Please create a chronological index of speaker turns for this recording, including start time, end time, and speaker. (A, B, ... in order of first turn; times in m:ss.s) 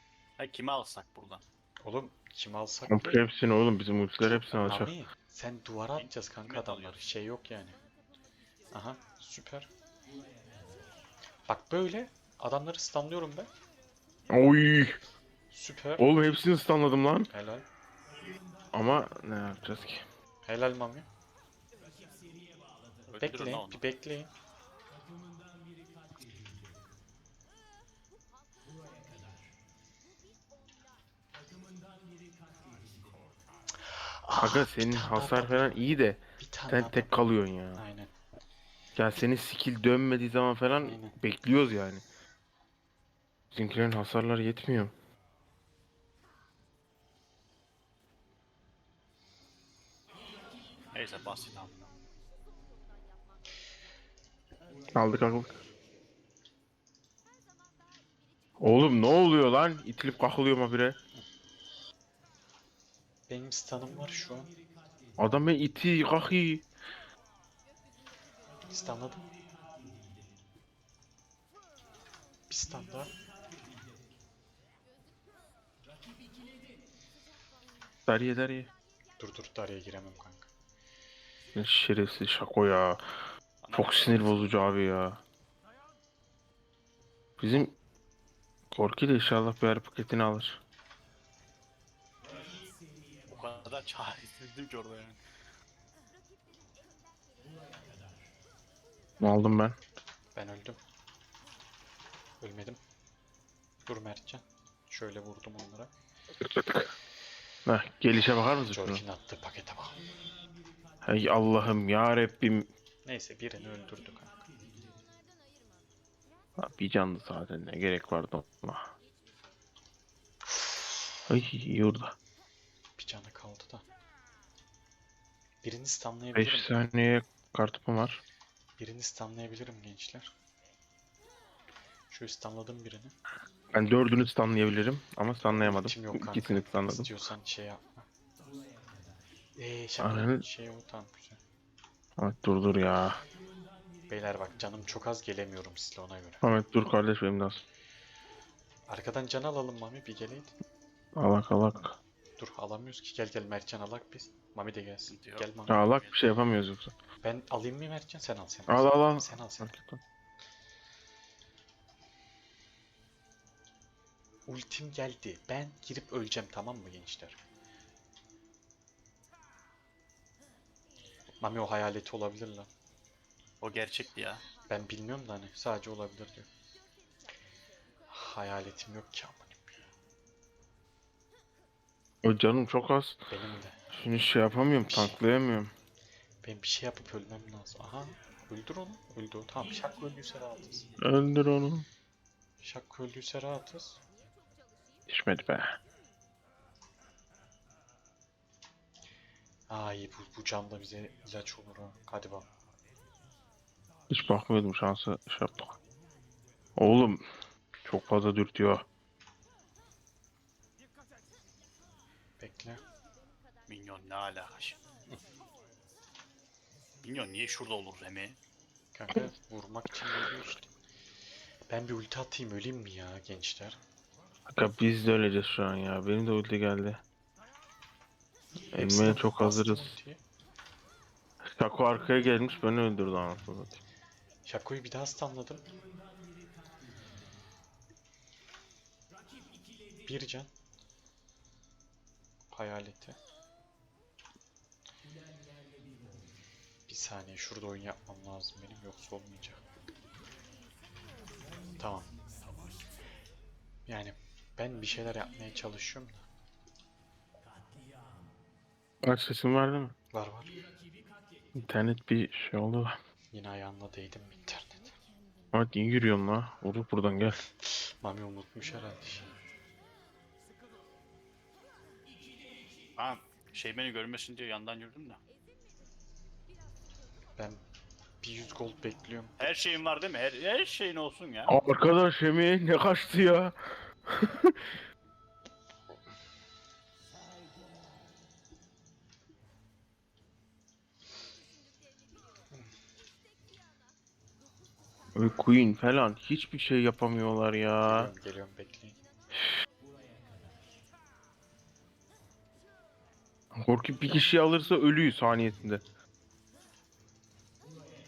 0:00.4-0:01.4 A
0:01.8-0:03.2 B
0:02.9-0:04.9 C
0:04.2-0:07.8 B
0:06.0-0:07.0 A
0:08.7-0:09.7 B
0:11.5-0:13.5 B
0:14.3-0:15.0 C
0:15.5-0:16.1 B
0:16.0-0:17.3 C
0:17.3-0:17.6 B
0:18.7-0:20.0 C
0:20.4-0:21.1 B
0:23.1-0:23.8 A
0:23.2-0:24.3 B
0:33.9-0:37.2 B
0:34.4-0:37.8 C
0:37.8-0:38.1 B
0:39.0-0:42.0 C
0:40.8-0:41.2 B
0:43.5-0:44.9 C
0:50.9-0:52.0 A
0:54.9-0:55.6 C
0:58.6-1:01.0 C
1:03.3-1:04.5 B
1:05.2-1:06.6 C
1:08.7-1:09.3 B
1:12.5-1:13.2 B
1:18.1-1:18.7 C
1:19.2-1:20.5 B
1:21.6-1:23.0 C
1:23.6-1:24.5 A
1:23.7-1:25.2 C
1:27.4-1:27.8 C
1:28.7-1:30.6 C
1:33.3-1:35.2 A
1:39.2-1:39.8 C
1:40.4-1:40.8 B
1:42.4-1:42.8 B
1:43.9-1:45.9 B
1:46.4-1:46.9 C
1:47.7-1:49.0 C
1:48.7-1:50.0 B
1:51.0-1:52.7 C
1:53.0-1:54.3 B
1:56.6-1:58.9 C
2:00.5-2:01.1 B
2:01.3-2:02.2 C
2:03.0-2:03.8 B
2:05.6-2:06.9 B
2:06.4-2:08.2 C
2:08.8-2:10.3 B
2:12.1-2:13.2 B
2:13.7-2:17.1 C
2:15.4-2:18.1 B
2:19.6-2:21.4 B
2:20.0-2:20.4 C
2:22.2-2:23.2 C
2:24.1-2:26.5 B
2:26.4-2:27.6 C
2:28.9-2:30.6 B
2:31.2-2:32.0 C
2:32.4-2:35.9 B
2:35.1-2:36.2 A
2:35.7-2:37.0 C
2:37.2-2:39.8 B
2:38.7-2:40.0 C
2:44.5-2:47.4 B
2:51.4-2:52.7 B
2:53.6-2:54.4 A
2:54.7-2:56.5 B
2:58.1-2:59.8 B
3:02.2-3:03.2 C
3:03.3-3:03.8 B
3:03.9-3:05.7 C
3:04.9-3:05.2 B
3:06.4-3:11.0 B
3:11.0-3:11.9 C
3:12.6-3:14.0 B
3:15.1-3:15.8 C
3:19.7-3:22.5 B
3:24.1-3:25.8 C
3:26.8-3:27.2 C
3:27.8-3:28.8 C
3:32.4-3:32.8 B
3:33.7-3:34.8 A
3:37.0-3:38.4 A
3:38.9-3:40.7 B
3:41.7-3:43.8 B
3:44.5-3:47.0 C
3:48.7-3:50.2 B
3:48.7-3:49.9 C
3:51.4-3:53.8 C
3:54.5-3:55.7 B
4:00.0-4:00.5 B
4:02.5-4:03.2 B
4:06.9-4:09.6 B
4:11.8-4:12.2 B
4:13.9-4:16.2 B
4:19.0-4:19.9 C
4:20.1-4:20.6 B
4:21.6-4:23.0 C
4:23.3-4:25.0 B
4:25.5-4:27.4 C
4:27.4-4:29.3 B
4:33.0-4:35.2 A
4:37.4-4:37.6 B
4:38.2-4:39.5 B
4:39.4-4:41.6 A
4:41.5-4:44.8 C
4:55.2-4:58.1 C
4:57.8-4:59.0 B
5:03.5-5:05.8 C